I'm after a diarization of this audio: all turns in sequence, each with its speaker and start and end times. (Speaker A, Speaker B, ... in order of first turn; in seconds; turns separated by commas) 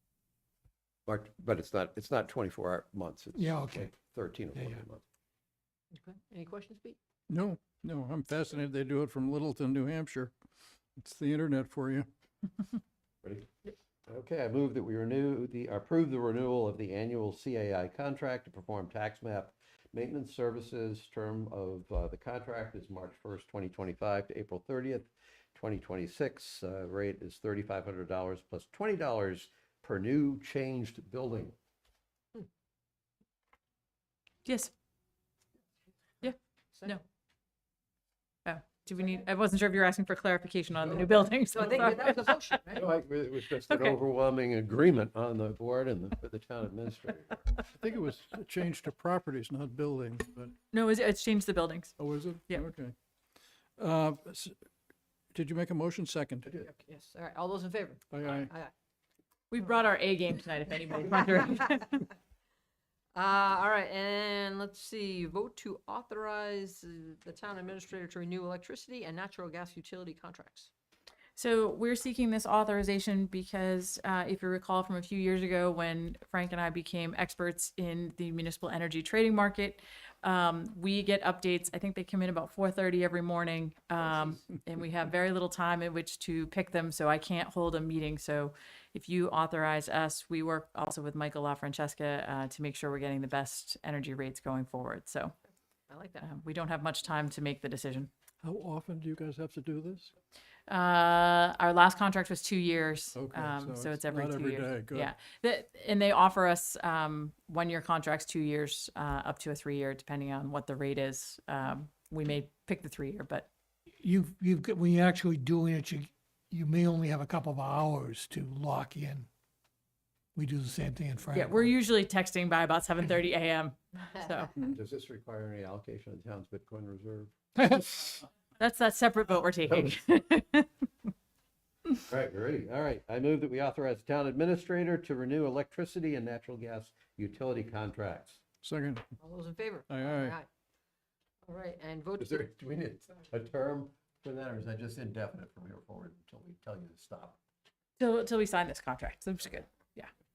Speaker A: 1.1-5.0, Speaker B: 3.4-3.8, Speaker C: 5.9-7.0, Speaker D: 7.3-10.3, Speaker D: 11.0-12.1, Speaker A: 13.2-13.5, Speaker A: 14.1-31.6, Speaker E: 34.5-34.7, Speaker E: 36.2-37.0, Speaker C: 36.7-37.0, Speaker E: 38.5-42.6, Speaker C: 40.9-42.9, Speaker A: 42.7-47.4, Speaker E: 43.5-44.0, Speaker D: 47.7-50.5, Speaker E: 50.7-52.0, Speaker D: 52.0-53.0, Speaker D: 53.8-54.5, Speaker D: 55.3-56.5, Speaker C: 56.5-58.7, Speaker D: 58.1-58.5, Speaker E: 59.5-62.1, Speaker C: 63.1-70.7, Speaker E: 71.4-95.4, Speaker C: 95.9-96.3, Speaker E: 96.2-98.1, Speaker D: 98.4-100.2, Speaker E: 100.7-113.5, Speaker D: 103.2-105.1, Speaker B: 114.0-119.3, Speaker B: 120.3-121.7, Speaker E: 121.3-124.5, Speaker A: 124.6-127.7, Speaker E: 128.6-130.7, Speaker A: 129.7-129.9, Speaker A: 132.1-138.4, Speaker D: 138.6-139.1, Speaker C: 139.2-140.5, Speaker D: 139.9-140.4, Speaker C: 141.4-142.5, Speaker A: 142.2-147.4, Speaker E: 148.0-150.1